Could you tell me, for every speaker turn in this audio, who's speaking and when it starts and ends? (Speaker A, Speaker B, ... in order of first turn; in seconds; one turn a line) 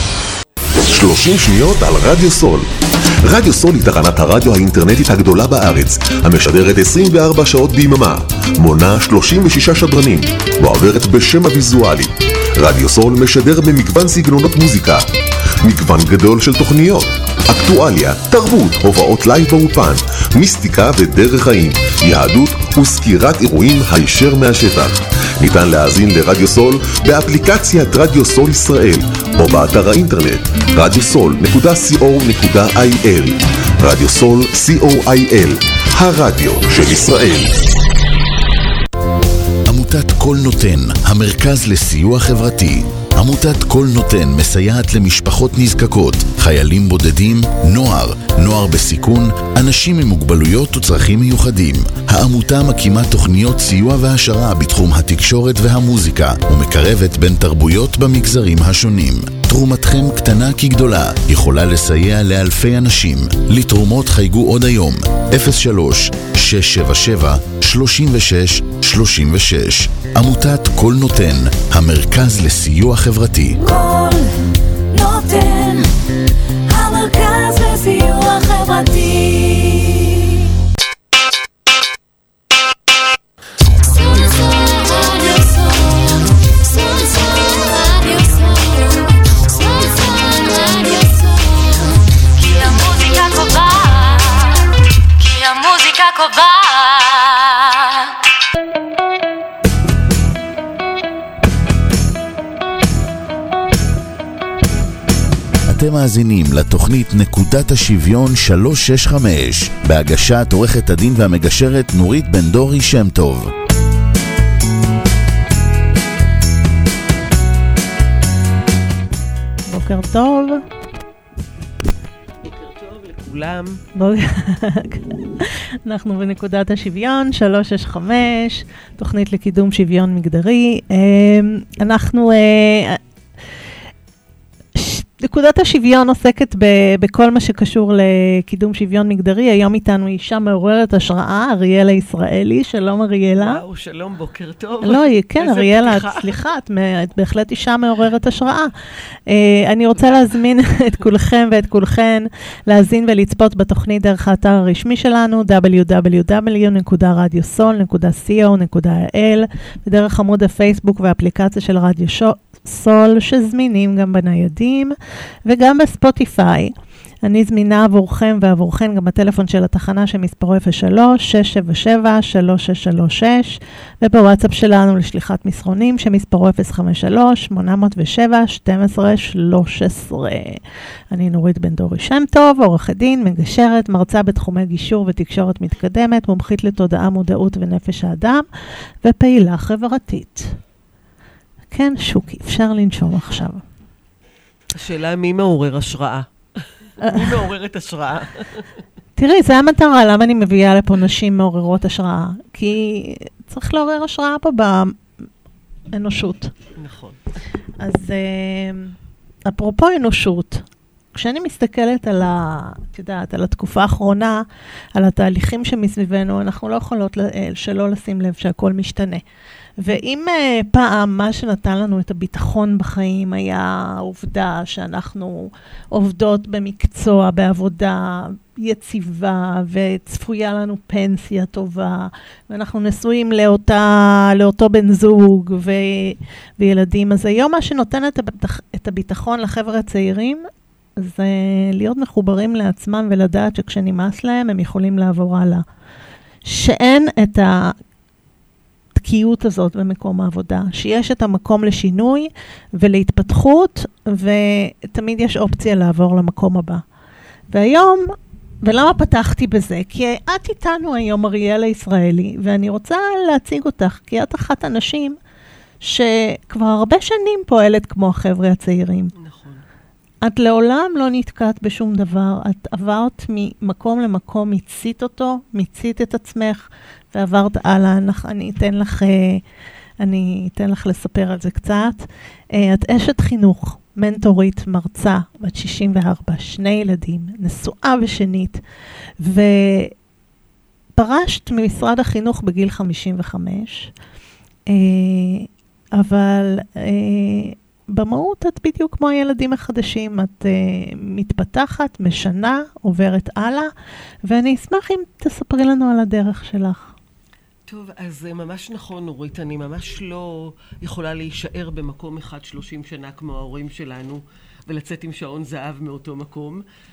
Speaker A: 0.8-2.7
Speaker A: 3.2-15.1
Speaker A: 15.6-37.5
Speaker B: 39.6-73.6
Speaker C: 73.6-75.9
Speaker C: 76.7-80.3
Speaker C: 83.8-94.7
Speaker C: 95.2-98.1
Speaker B: 105.7-113.5
Speaker D: 119.7-120.6
Speaker E: 122.4-123.8
Speaker D: 124.0-133.0
Speaker D: 134.8-143.6
Speaker E: 143.4-146.3
Speaker D: 144.8-148.7
Speaker D: 149.3-180.6
Speaker D: 181.1-188.5
Speaker D: 189.0-190.6
Speaker D: 191.7-193.6
Speaker E: 194.7-198.7
Speaker D: 197.0-197.4
Speaker D: 199.2-205.0
Speaker D: 205.9-206.5
Speaker E: 206.8-207.2
Speaker D: 207.8-209.0
Speaker D: 209.5-214.4
Speaker D: 214.9-219.2
Speaker D: 219.8-240.5
Speaker D: 241.0-245.7
Speaker D: 246.4-247.8
Speaker D: 249.0-256.8
Speaker D: 257.5-265.2
Speaker D: 265.8-269.1
Speaker E: 269.2-269.6
Speaker D: 270.2-279.4
Speaker D: 280.0-288.6
Speaker D: 289.2-289.9
Speaker D: 291.0-293.9
Speaker D: 294.7-303.7
Speaker D: 304.3-306.9
Speaker E: 307.7-316.6